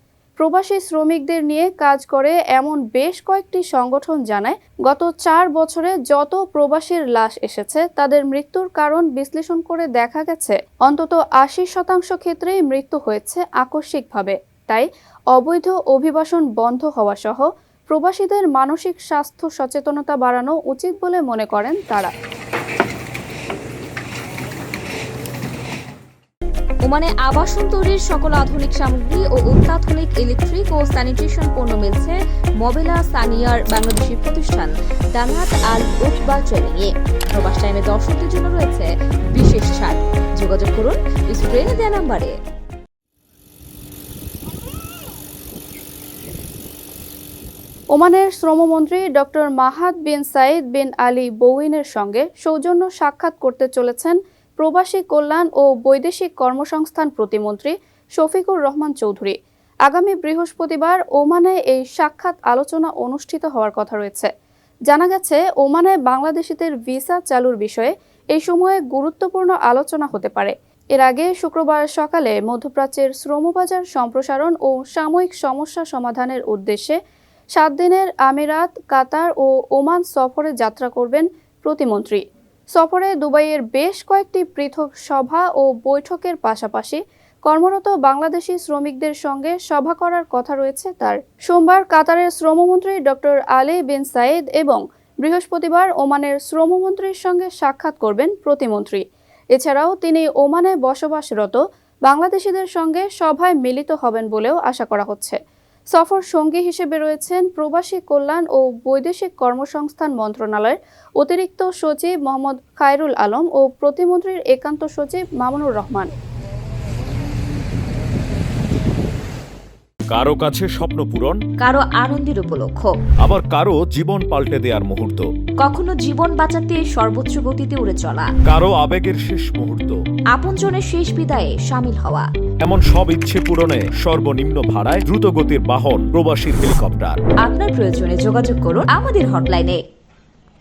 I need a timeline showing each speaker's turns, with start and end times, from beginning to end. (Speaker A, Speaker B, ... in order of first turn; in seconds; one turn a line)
Speaker A: 0.4-22.1
Speaker B: 26.8-42.3
Speaker A: 47.9-64.3
Speaker A: 64.9-77.0
Speaker A: 77.5-82.2
Speaker A: 82.7-99.0
Speaker A: 99.5-105.4
Speaker A: 105.9-116.1
Speaker C: 120.1-121.4
Speaker B: 121.6-122.9
Speaker C: 123.2-125.3
Speaker B: 125.6-128.3
Speaker C: 128.4-130.0
Speaker B: 130.3-132.3
Speaker C: 132.6-137.2
Speaker B: 137.4-139.8